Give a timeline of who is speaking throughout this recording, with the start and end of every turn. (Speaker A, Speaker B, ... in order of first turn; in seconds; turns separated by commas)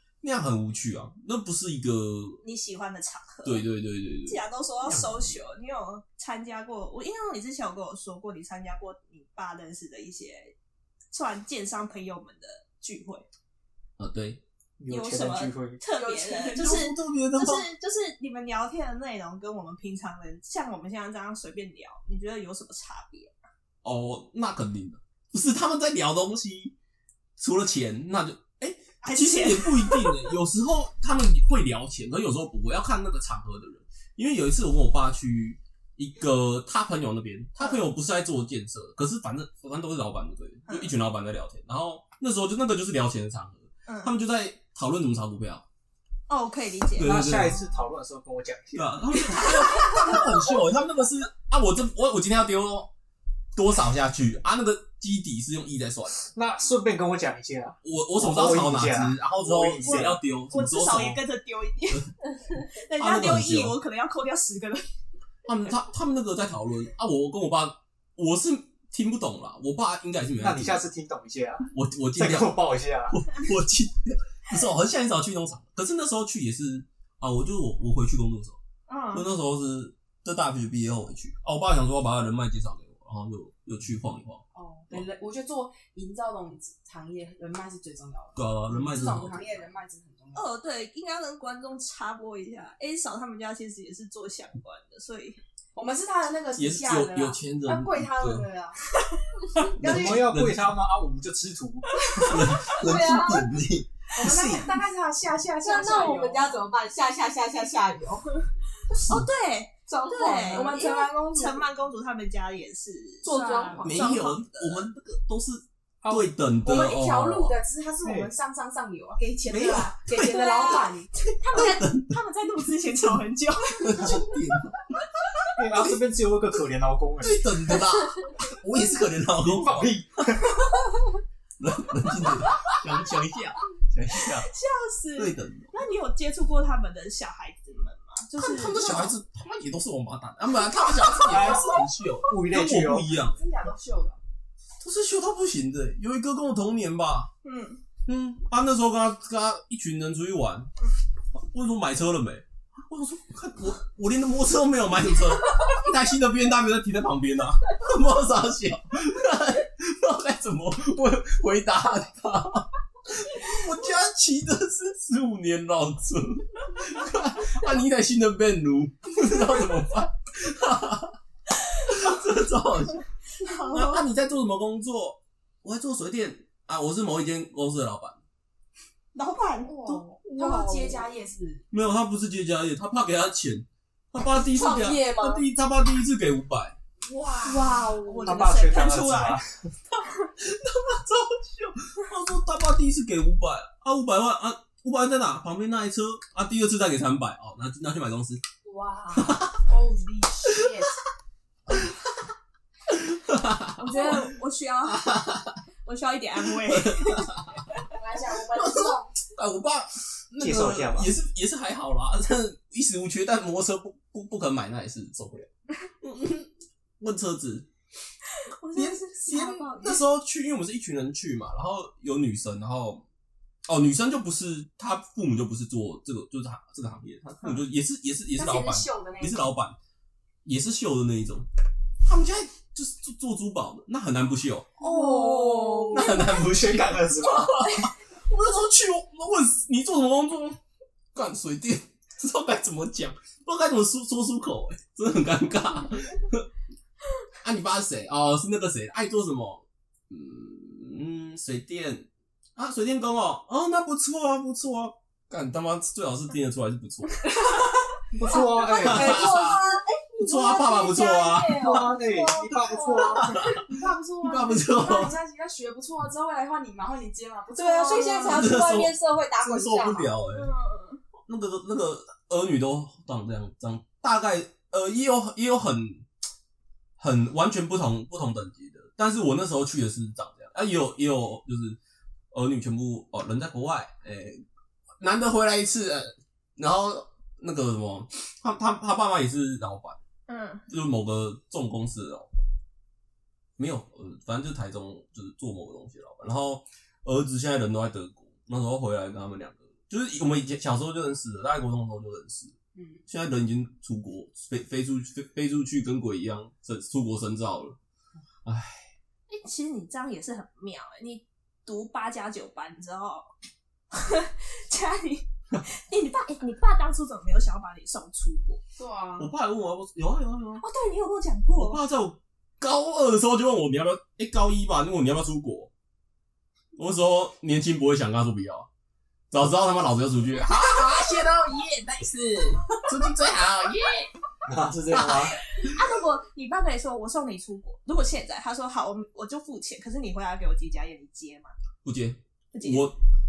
Speaker A: 0.2-2.4, Speaker B: 2.4-3.6, Speaker A: 3.4-4.4, Speaker B: 4.2-10.5, Speaker B: 11.1-13.2, Speaker A: 14.0-14.4, Speaker C: 14.8-15.8, Speaker B: 14.9-23.3, Speaker D: 15.9-16.8, Speaker A: 16.5-17.6, Speaker A: 23.8-26.8, Speaker A: 27.4-45.6, Speaker B: 29.0-30.2, Speaker B: 40.7-40.9, Speaker B: 46.3-47.2, Speaker A: 47.0-47.6, Speaker C: 47.0-49.5, Speaker A: 48.7-52.9, Speaker B: 49.5-50.2, Speaker A: 53.5-56.2, Speaker C: 56.3-60.2, Speaker A: 57.8-61.2, Speaker B: 59.9-64.8, Speaker A: 63.0-63.8, Speaker A: 65.4-70.9, Speaker C: 70.4-73.2, Speaker A: 71.7-72.5, Speaker A: 73.1-78.6, Speaker B: 78.9-79.3, Speaker A: 79.1-85.0, Speaker D: 84.5-90.5, Speaker A: 88.3-89.7, Speaker B: 90.3-95.4, Speaker D: 95.8-98.8, Speaker A: 96.5-98.5, Speaker A: 99.7-100.8, Speaker C: 99.8-102.7, Speaker A: 102.2-104.8, Speaker E: 102.8-103.5, Speaker D: 104.1-106.7, Speaker E: 105.6-108.3, Speaker B: 109.0-114.9, Speaker E: 109.9-110.8, Speaker D: 110.1-111.6, Speaker E: 113.2-113.9, Speaker D: 113.3-113.9, Speaker A: 113.8-117.6, Speaker C: 116.0-116.3, Speaker D: 116.6-121.1, Speaker C: 118.0-118.3, Speaker A: 119.5-120.0, Speaker B: 120.1-124.2, Speaker A: 121.5-122.1, Speaker A: 123.8-124.8, Speaker C: 125.5-127.8, Speaker A: 125.7-126.0, Speaker A: 127.2-129.9, Speaker C: 129.4-130.7, Speaker A: 131.6-134.5, Speaker B: 134.4-139.1, Speaker A: 135.2-135.7, Speaker A: 138.4-143.4, Speaker C: 141.2-143.1, Speaker D: 143.2-144.2, Speaker A: 144.8-147.3, Speaker B: 147.4-147.8, Speaker A: 148.1-150.7, Speaker A: 151.3-171.1, Speaker A: 171.8-173.0, Speaker B: 173.4-174.0, Speaker A: 173.6-178.2, Speaker B: 179.1-181.0, Speaker D: 179.7-181.6, Speaker A: 181.7-186.8, Speaker D: 184.5-185.4, Speaker D: 187.1-188.4, Speaker B: 187.4-189.4, Speaker C: 188.2-189.7, Speaker A: 190.4-198.4, Speaker D: 198.7-201.0, Speaker A: 199.1-199.6, Speaker A: 201.7-201.9, Speaker A: 202.9-204.2, Speaker B: 203.8-205.2, Speaker A: 204.9-205.5, Speaker B: 205.8-207.3, Speaker A: 206.4-207.6, Speaker D: 207.9-209.1, Speaker A: 208.4-215.5, Speaker C: 210.4-211.1, Speaker A: 216.0-216.5, Speaker A: 217.0-217.7, Speaker B: 218.4-220.0, Speaker A: 218.7-223.0, Speaker A: 223.7-229.8, Speaker D: 228.3-229.4, Speaker A: 230.4-231.4, Speaker A: 232.0-234.7, Speaker D: 234.8-236.1, Speaker B: 234.8-236.2, Speaker A: 235.9-240.6, Speaker C: 235.9-237.7, Speaker A: 241.1-246.5, Speaker A: 247.4-257.3, Speaker C: 258.1-259.3, Speaker E: 258.5-263.4, Speaker A: 258.7-259.6, Speaker A: 260.2-261.9, Speaker D: 261.2-261.5, Speaker C: 261.6-263.4, Speaker D: 262.6-268.7, Speaker A: 263.2-263.6, Speaker A: 264.2-265.1, Speaker E: 267.6-270.1, Speaker B: 267.6-268.4, Speaker A: 268.2-270.5, Speaker B: 270.3-271.0, Speaker A: 271.2-276.1, Speaker A: 277.0-281.8, Speaker A: 282.3-284.4, Speaker A: 285.0-290.0, Speaker B: 290.3-290.6, Speaker A: 290.7-292.3, Speaker A: 293.6-302.5, Speaker D: 302.8-303.0, Speaker A: 303.1-307.8, Speaker A: 308.4-308.9, Speaker B: 309.3-313.3, Speaker B: 313.9-318.6, Speaker D: 318.8-319.3, Speaker A: 319.2-320.6, Speaker B: 320.6-321.8, Speaker A: 321.5-325.7, Speaker A: 326.8-328.7, Speaker A: 329.3-334.1, Speaker B: 330.7-331.0, Speaker C: 334.4-335.4, Speaker A: 334.9-335.8, Speaker B: 335.5-341.5, Speaker A: 341.8-343.0, Speaker B: 342.5-342.9